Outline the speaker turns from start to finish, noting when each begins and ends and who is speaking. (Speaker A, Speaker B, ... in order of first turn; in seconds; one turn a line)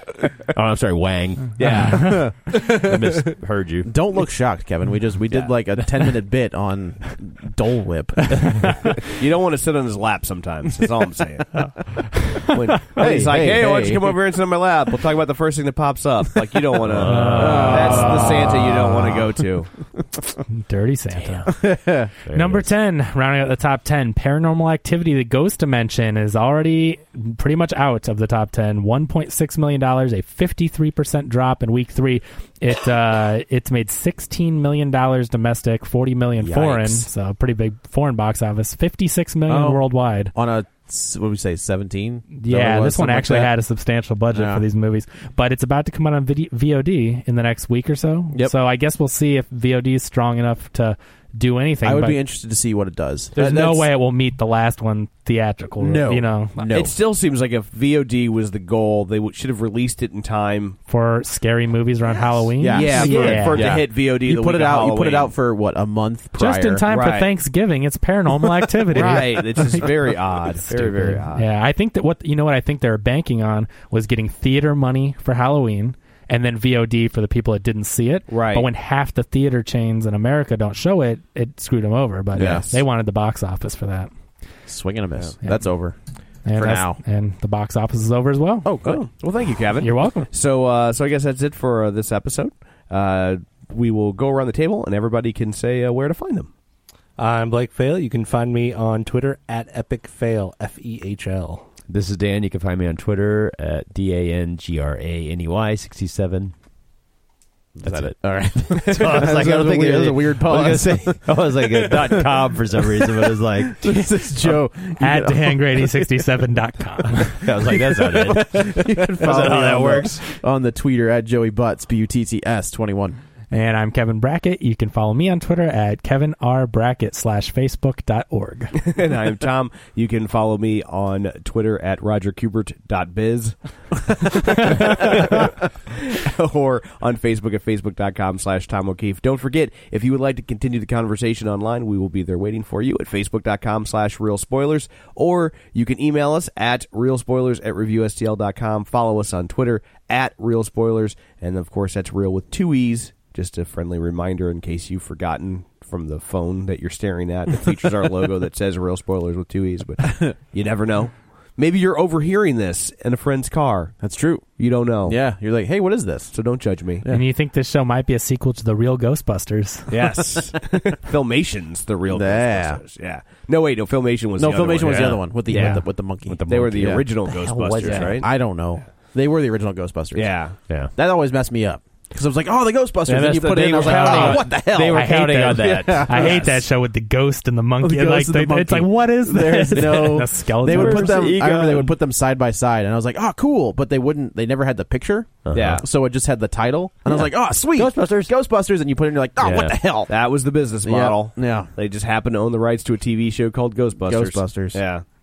Speaker A: 0.5-3.9
Speaker B: 1.6-3.0
Speaker C: 1.6-2.2
Speaker B: 3.8-9.0
Speaker D: 5.3-5.7
Speaker D: 9.1-19.7
Speaker B: 12.9-14.2
Speaker A: 16.9-18.5
Speaker C: 17.1-18.7
Speaker B: 17.1-19.1
Speaker C: 20.5-21.8
Speaker A: 21.1-21.5
Speaker B: 21.5-22.1
Speaker A: 22.1-22.7
Speaker C: 22.3-40.3
Speaker B: 36.5-37.0
Speaker B: 39.5-43.6
Speaker C: 42.3-52.2
Speaker B: 44.3-44.6
Speaker B: 51.8-53.9
Speaker C: 53.4-56.7
Speaker B: 55.8-56.9
Speaker D: 56.7-60.8
Speaker C: 60.9-63.6
Speaker B: 62.6-66.9
Speaker D: 62.7-65.3
Speaker A: 62.9-63.6
Speaker C: 66.4-69.9
Speaker D: 66.9-67.3
Speaker D: 68.9-71.5
Speaker C: 71.3-84.1
Speaker D: 78.3-78.7
Speaker B: 82.3-82.7
Speaker D: 82.3-82.8
Speaker B: 84.7-86.0
Speaker C: 85.4-85.7
Speaker C: 86.4-88.7
Speaker B: 86.5-87.0
Speaker B: 88.6-89.0
Speaker D: 88.8-96.5
Speaker C: 89.8-90.3
Speaker E: 97.2-101.7
Speaker A: 101.9-106.5
Speaker B: 107.7-112.4
Speaker A: 107.8-114.0
Speaker B: 113.6-116.3
Speaker C: 115.0-117.5
Speaker A: 117.4-120.2
Speaker B: 117.6-123.2
Speaker C: 123.5-128.8
Speaker D: 128.8-133.5
Speaker D: 134.1-165.2
Speaker B: 164.0-166.3
Speaker D: 166.3-167.0
Speaker C: 167.1-169.9
Speaker B: 169.9-170.5
Speaker D: 169.9-178.3
Speaker B: 172.1-172.8
Speaker B: 174.4-177.1
Speaker A: 174.8-178.3
Speaker B: 177.8-186.6
Speaker D: 180.1-180.6
Speaker A: 183.1-186.5
Speaker D: 183.8-184.6
Speaker C: 183.9-191.2
Speaker B: 187.8-200.1
Speaker A: 189.7-191.9
Speaker A: 195.4-195.8
Speaker D: 195.5-195.8
Speaker A: 197.1-198.3
Speaker A: 199.4-199.8
Speaker D: 200.1-205.0
Speaker B: 200.8-201.7
Speaker B: 204.0-204.8